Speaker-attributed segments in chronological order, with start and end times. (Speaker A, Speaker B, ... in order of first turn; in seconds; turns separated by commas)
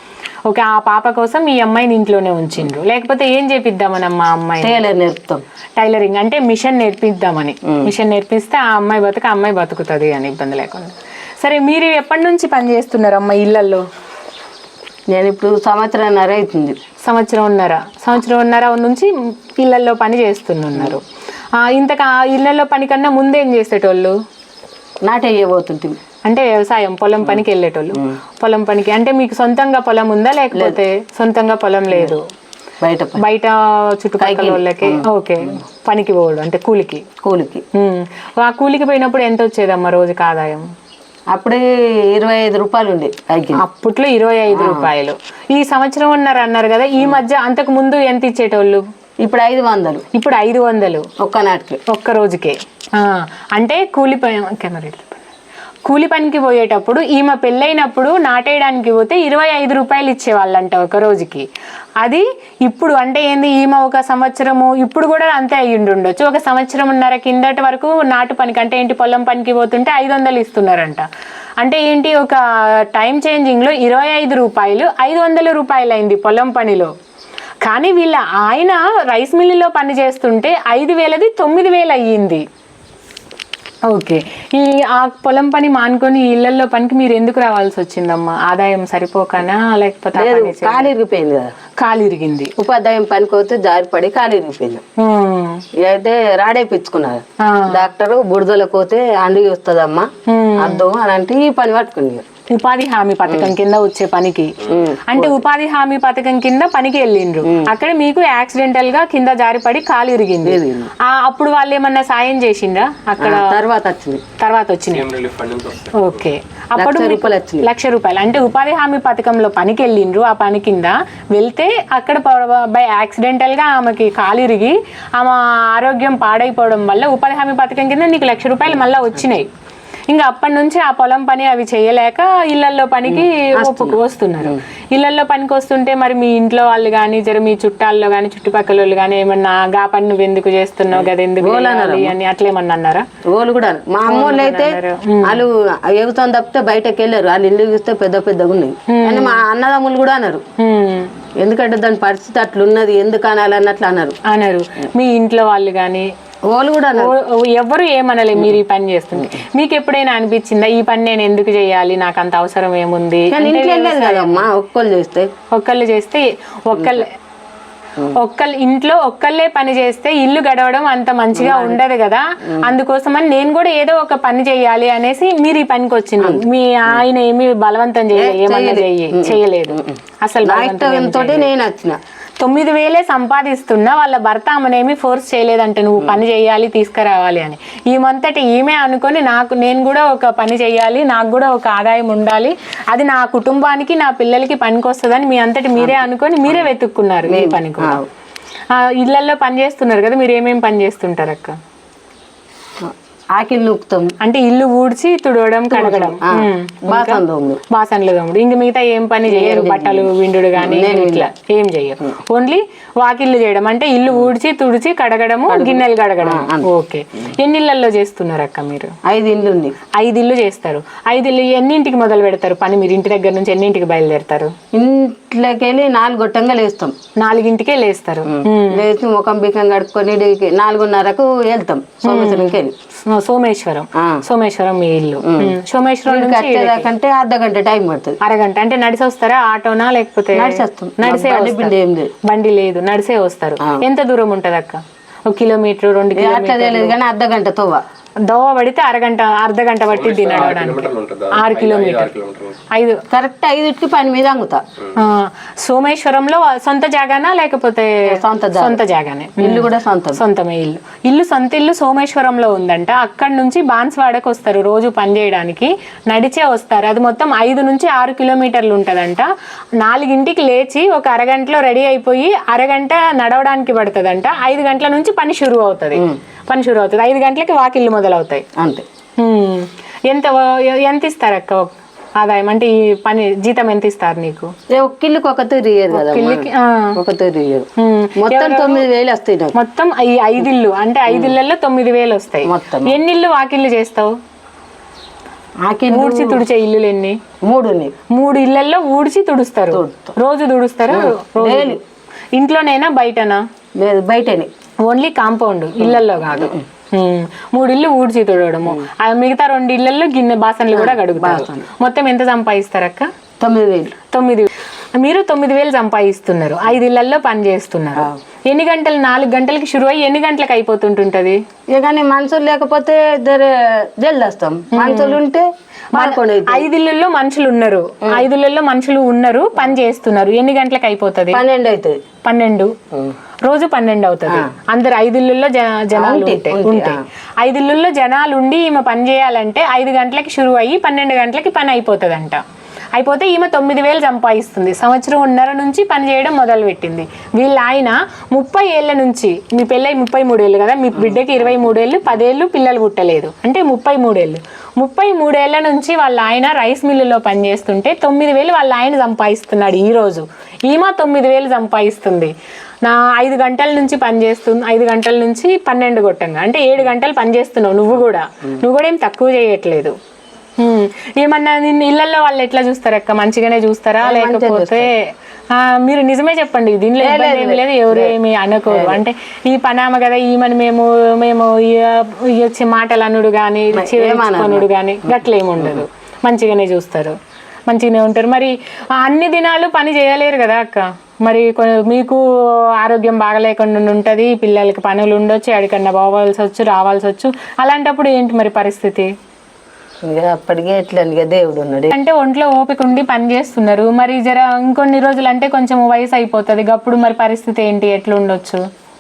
Speaker A: 0.5-4.8, Speaker B: 4.6-5.4, Speaker A: 5.8-13.8, Speaker B: 7.7-7.9, Speaker B: 15.1-16.8, Speaker A: 17.0-21.0, Speaker A: 21.6-24.2, Speaker B: 25.0-26.0, Speaker A: 26.3-32.2, Speaker B: 30.5-30.8, Speaker B: 32.8-33.2, Speaker A: 33.2-37.0, Speaker B: 34.2-35.0, Speaker B: 37.2-37.6, Speaker A: 37.7-40.7, Speaker B: 41.3-43.6, Speaker A: 43.6-48.8, Speaker B: 44.5-44.9, Speaker B: 49.2-50.0, Speaker A: 50.1-51.1, Speaker B: 51.2-51.8, Speaker A: 51.9-55.2, Speaker A: 55.9-61.5, Speaker A: 62.0-71.1, Speaker A: 71.6-76.9, Speaker A: 77.6-82.4, Speaker A: 83.9-90.9, Speaker B: 90.2-91.5, Speaker A: 91.8-92.5, Speaker B: 92.6-94.8, Speaker A: 95.0-95.7, Speaker B: 95.7-102.2, Speaker A: 97.4-97.8, Speaker A: 100.3-100.9, Speaker A: 102.5-113.6, Speaker B: 103.3-103.5, Speaker B: 104.7-105.4, Speaker B: 107.4-107.7, Speaker B: 110.5-110.9, Speaker B: 113.2-114.2, Speaker A: 114.4-115.1, Speaker C: 114.9-116.0, Speaker A: 116.0-129.5, Speaker B: 116.8-117.7, Speaker A: 130.1-143.1, Speaker B: 133.1-134.6, Speaker B: 140.9-142.2, Speaker B: 143.2-150.4, Speaker A: 144.1-145.4, Speaker A: 148.9-149.4, Speaker A: 150.6-151.1, Speaker B: 151.4-154.2, Speaker A: 154.3-156.1, Speaker B: 156.5-157.2, Speaker A: 156.9-164.4, Speaker B: 163.3-165.3, Speaker A: 165.5-167.1, Speaker A: 168.1-181.5, Speaker B: 171.3-171.8, Speaker B: 176.2-177.0, Speaker B: 178.1-182.0, Speaker A: 182.4-198.0, Speaker B: 195.8-196.7, Speaker B: 197.3-198.1, Speaker A: 198.7-201.6, Speaker B: 202.8-204.1, Speaker A: 204.2-218.9, Speaker B: 205.7-207.6, Speaker B: 209.3-211.3, Speaker B: 215.5-216.7, Speaker B: 219.1-219.8, Speaker A: 220.0-224.5, Speaker B: 224.7-226.9, Speaker A: 227.2-228.9, Speaker B: 228.2-232.7, Speaker A: 232.0-236.9, Speaker B: 234.0-234.2, Speaker B: 235.2-238.2, Speaker A: 238.2-246.9, Speaker B: 240.3-242.1, Speaker B: 246.2-247.8, Speaker A: 248.3-252.2, Speaker C: 249.9-252.6, Speaker A: 252.7-253.0, Speaker B: 253.1-254.6, Speaker A: 255.0-269.3, Speaker B: 258.1-258.8, Speaker B: 259.4-260.2, Speaker A: 269.8-278.4, Speaker B: 278.6-278.9, Speaker A: 279.2-284.5, Speaker B: 284.7-289.6, Speaker A: 285.9-287.0, Speaker A: 287.8-288.9, Speaker A: 289.6-294.1, Speaker B: 291.1-291.4, Speaker B: 292.4-293.0, Speaker B: 295.6-296.4, Speaker A: 295.9-297.2, Speaker B: 297.4-297.9, Speaker A: 298.1-301.8, Speaker B: 299.7-300.2, Speaker B: 300.9-301.8, Speaker A: 302.4-303.4, Speaker B: 303.8-304.5, Speaker A: 304.8-313.1, Speaker B: 305.8-306.6, Speaker B: 310.7-311.7, Speaker B: 313.4-313.9, Speaker A: 314.1-321.4, Speaker B: 321.7-326.7, Speaker A: 324.7-325.2, Speaker A: 325.9-331.4, Speaker B: 331.3-332.0, Speaker A: 332.2-332.8, Speaker A: 333.4-342.4, Speaker B: 335.9-337.0, Speaker A: 343.0-370.0, Speaker B: 351.0-351.2, Speaker A: 370.6-387.2, Speaker B: 374.0-374.9, Speaker B: 377.0-378.2, Speaker B: 378.7-379.0, Speaker B: 383.7-385.9, Speaker A: 387.7-399.1, Speaker B: 400.0-401.9, Speaker A: 401.9-408.6